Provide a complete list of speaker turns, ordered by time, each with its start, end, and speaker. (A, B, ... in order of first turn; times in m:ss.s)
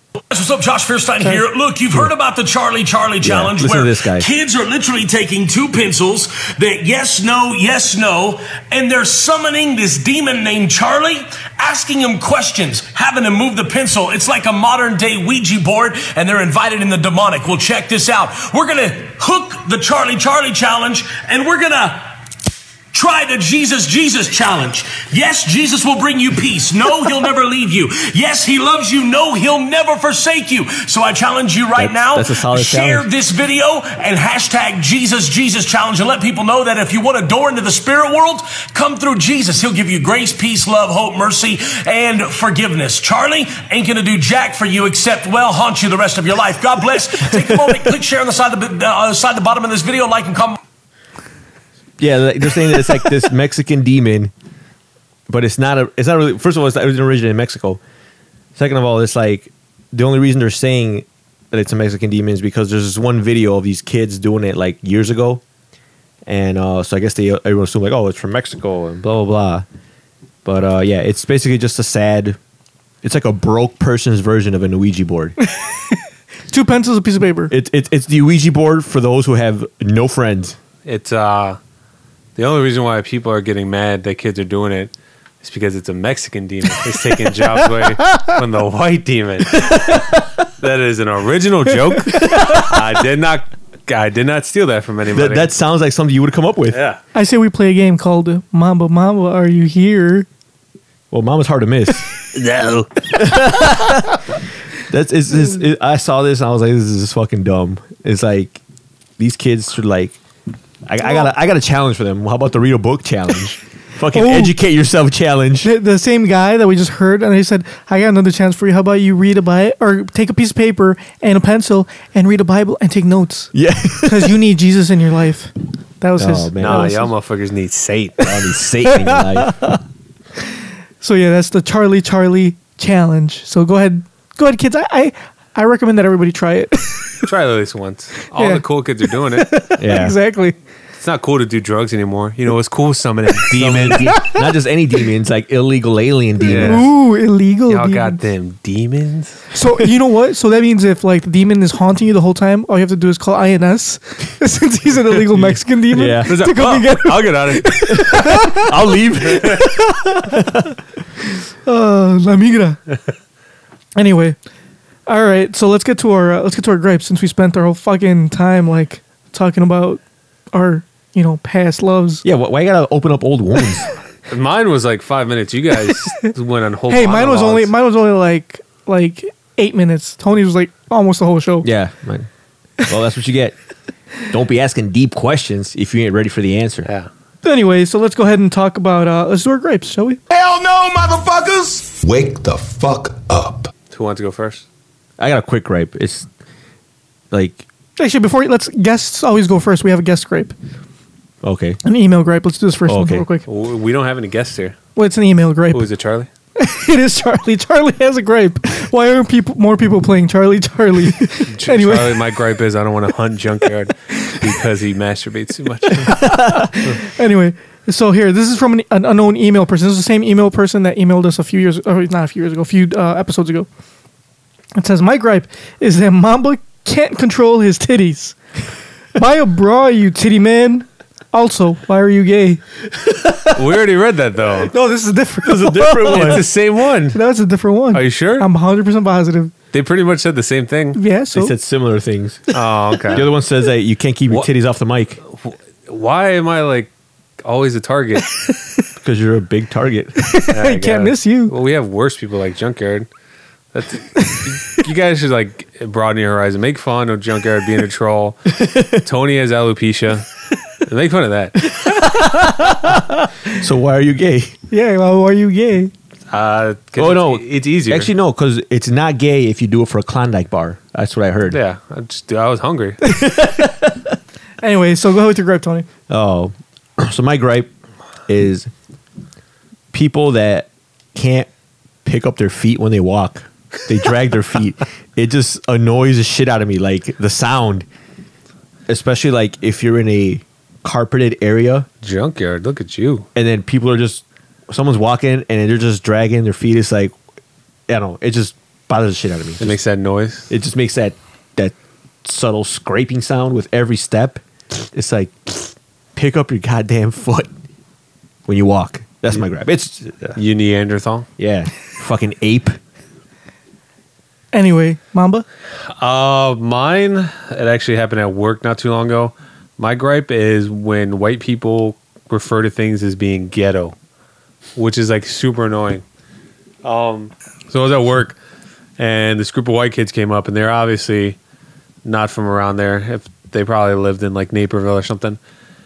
0:00.3-0:22.2 A
0:03.2-0:04.3 B
0:22.9-0:50.6 A
0:31.8-0:33.1 B
0:52.0-0:54.3 B
0:55.3-0:57.8 B
0:58.6-1:05.4 B
1:06.3-1:09.7 B
1:10.4-1:12.4 B
1:13.0-1:15.4 B
1:15.6-1:15.9 C
1:16.5-1:17.5 C
1:17.5-1:20.6 B
1:20.8-1:21.6 D
1:22.4-1:30.1 D
1:29.5-1:30.2 B
1:30.6-1:35.5 D
1:32.1-1:32.8 B
1:35.1-1:36.8 B
1:36.7-1:37.0 D
1:37.1-1:40.3 C
1:41.1-1:42.2 B
1:42.3-1:42.9 D
1:43.1-1:44.2 B
1:44.9-1:48.6 B
1:49.2-1:50.2 B
1:50.9-1:55.7 B
1:54.1-1:54.5 C
1:55.6-2:03.5 C
2:03.5-2:04.3 B
2:04.0-2:07.1 C
2:06.2-2:07.1 B
2:06.6-2:08.5 D
2:08.2-2:09.8 B
2:08.9-2:09.5 C
2:11.0-2:17.2 C
2:17.2-2:19.5 D
2:18.4-2:18.6 C
2:19.3-2:20.6 C
2:19.8-2:20.2 B
2:21.0-2:24.1 D
2:23.5-2:26.8 B
2:26.4-2:28.2 C
2:26.5-2:26.9 D
2:27.7-2:29.4 D
2:29.5-2:38.7 C
2:35.9-2:36.3 B
2:36.3-2:38.2 D
2:37.9-2:40.7 B
2:41.6-2:42.8 C
2:44.0-2:44.4 C
2:45.1-2:50.0 C
2:50.5-2:52.2 C
2:52.2-2:53.9 B
2:54.3-2:57.7 D
2:56.9-3:01.7 C
3:01.6-3:02.3 B
3:02.9-3:03.6 B
3:04.3-3:06.9 B
3:07.4-3:10.2 C
3:10.3-3:13.7 E
3:13.9-3:14.6 D
3:15.2-3:16.3 B
3:17.3-3:17.7 B
3:18.0-3:20.6 C
3:21.4-3:21.8 B
3:21.8-3:23.5 C
3:22.9-3:23.3 B
3:23.5-3:24.8 D
3:25.0-3:25.8 C
3:25.7-3:26.3 D
3:26.6-3:32.2 C
3:31.5-3:36.4 D
3:36.1-3:36.6 B
3:36.2-3:43.7 C
3:44.8-3:48.4 C
3:49.2-3:52.6 C
3:53.5-3:54.7 D
3:54.7-3:56.4 C
3:55.4-3:56.4 B
3:56.0-3:57.2 D
3:57.1-3:59.5 C
3:57.9-3:58.5 D
3:59.7-4:01.0 D
4:01.0-4:01.5 C
4:01.3-4:02.5 B
4:02.5-4:03.3 D
4:03.1-4:05.2 B
4:05.4-4:06.9 D
4:07.4-4:08.3 D
4:09.0-4:10.2 B
4:10.2-4:11.5 C
4:10.5-4:13.1 D
4:13.7-4:21.7 D
4:18.6-4:19.0 B
4:22.0-4:24.6 B
4:24.7-4:25.9 C
4:26.3-4:28.1 D
4:27.0-4:31.6 B
4:31.5-4:33.0 D
4:33.0-4:34.1 B
4:34.6-4:35.9 C
4:36.1-4:37.7 B
4:38.3-4:38.7 B
4:39.9-4:41.5 B
4:42.0-4:47.9 B
4:48.9-4:51.9 B
4:52.0-4:53.3 D
4:53.4-4:57.2 B
4:57.9-4:59.8 B
4:59.6-5:00.5 D
5:00.5-5:07.5 B
5:08.5-5:10.4 B
5:10.4-5:11.3 D
5:11.4-5:12.8 B
5:14.5-5:15.4 C
5:16.0-5:24.0 D
5:24.8-5:26.0 D
5:26.8-5:28.4 D
5:29.0-5:31.4 D
5:32.0-5:35.4 D